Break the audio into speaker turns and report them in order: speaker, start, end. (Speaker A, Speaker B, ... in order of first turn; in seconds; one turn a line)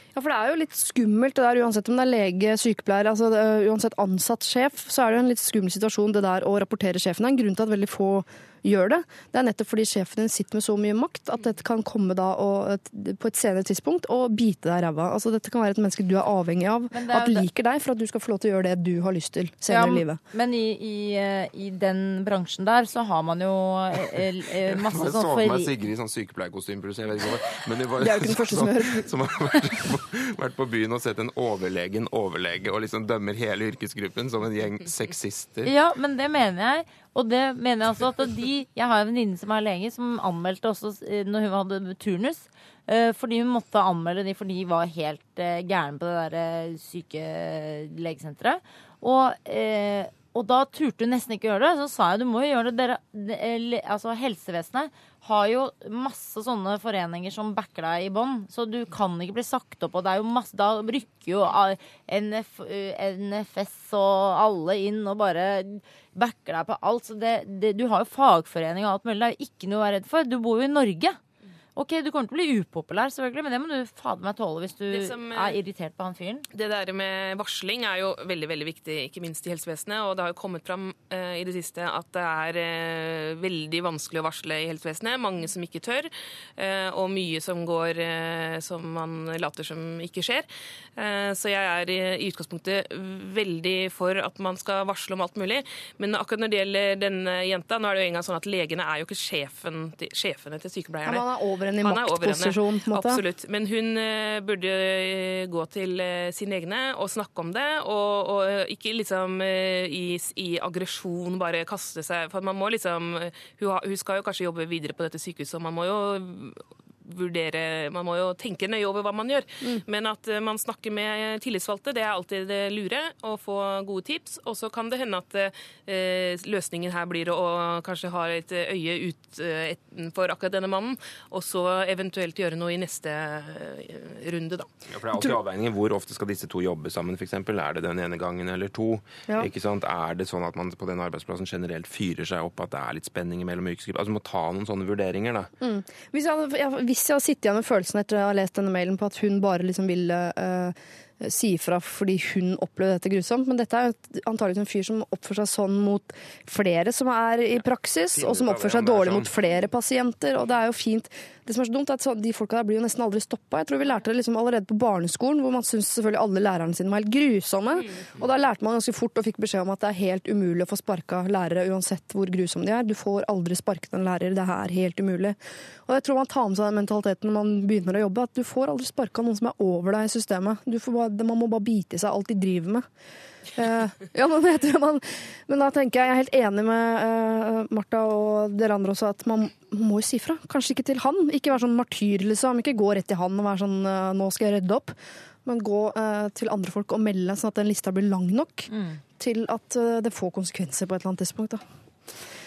Speaker A: 0.1-20.2
Speaker B: 16.9-17.5
Speaker B: 19.7-25.7
Speaker C: 24.7-35.7
Speaker A: 28.0-29.1
Speaker B: 35.6-71.2
Speaker B: 71.8-76.5
Speaker D: 74.9-75.6
Speaker D: 76.5-101.3
Speaker A: 101.0-103.2
Speaker D: 101.8-134.7
Speaker C: 134.9-145.5
Speaker A: 145.6-182.9
Speaker C: 158.1-159.3
Speaker A: 183.6-201.6
Speaker B: 198.7-199.0